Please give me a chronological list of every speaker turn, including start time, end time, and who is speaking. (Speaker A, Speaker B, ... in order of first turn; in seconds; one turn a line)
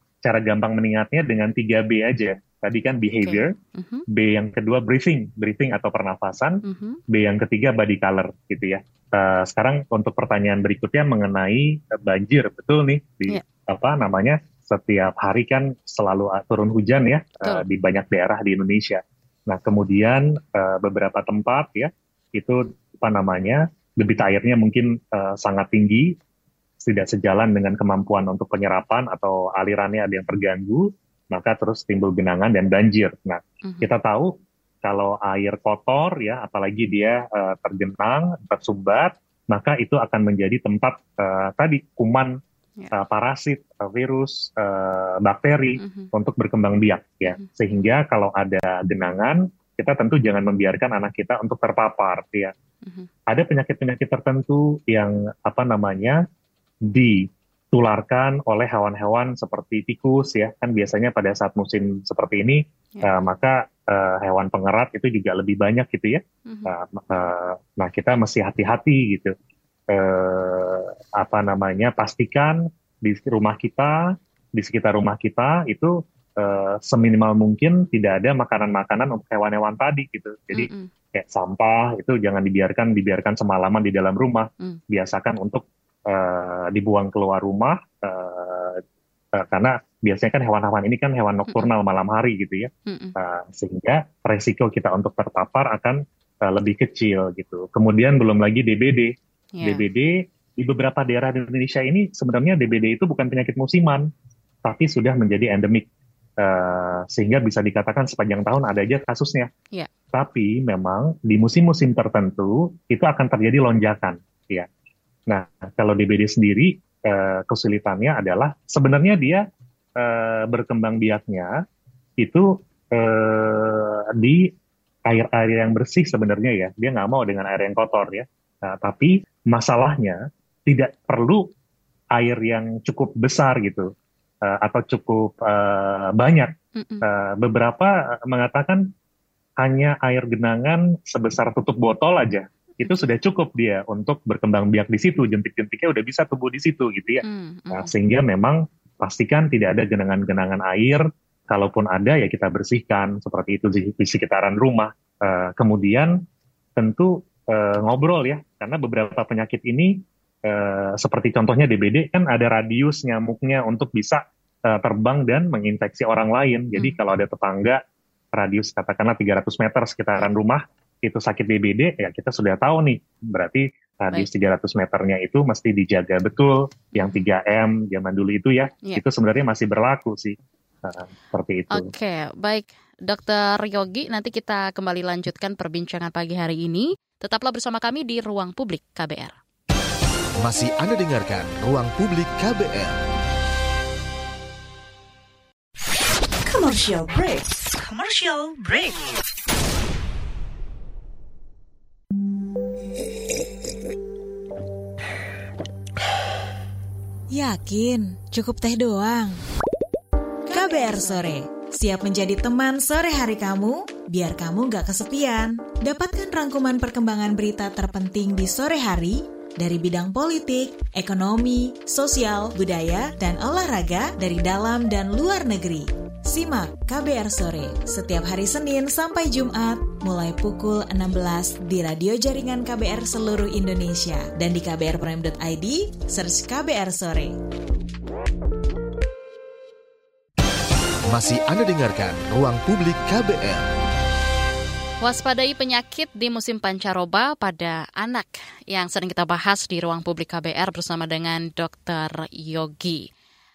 Speaker A: 0.2-3.5
Speaker B: 3.2-4.0
Speaker A: 4.1-26.1
Speaker B: 6.6-7.0
Speaker A: 26.8-34.3
Speaker B: 33.6-33.9
Speaker A: 34.8-42.4
Speaker A: 42.9-52.5
Speaker B: 45.8-46.1
Speaker A: 53.3-56.2
Speaker A: 56.8-69.3
Speaker B: 66.5-66.7
Speaker A: 69.9-74.0
Speaker A: 74.5-88.8
Speaker B: 80.5-80.9
Speaker A: 89.3-104.1
Speaker B: 92.9-93.2
Speaker B: 99.5-99.8
Speaker A: 104.6-105.9
Speaker A: 106.4-109.5
Speaker A: 110.1-114.7
Speaker A: 115.3-119.4
Speaker A: 120.0-121.5
Speaker A: 122.2-124.5
Speaker A: 125.1-131.5
Speaker A: 132.1-133.9
Speaker A: 134.4-136.5
Speaker B: 136.8-137.0
Speaker A: 137.0-138.8
Speaker A: 139.6-156.2
Speaker B: 142.8-143.1
Speaker B: 147.2-147.9
Speaker A: 156.8-167.8
Speaker A: 168.3-181.9
Speaker B: 176.9-177.3
Speaker B: 181.7-189.4
Speaker C: 190.4-193.0
Speaker D: 196.4-199.1
Speaker E: 207.3-209.4
Speaker B: 210.5-211.3
Speaker E: 210.5-237.4
Speaker C: 241.1-243.7
Speaker B: 245.0-253.1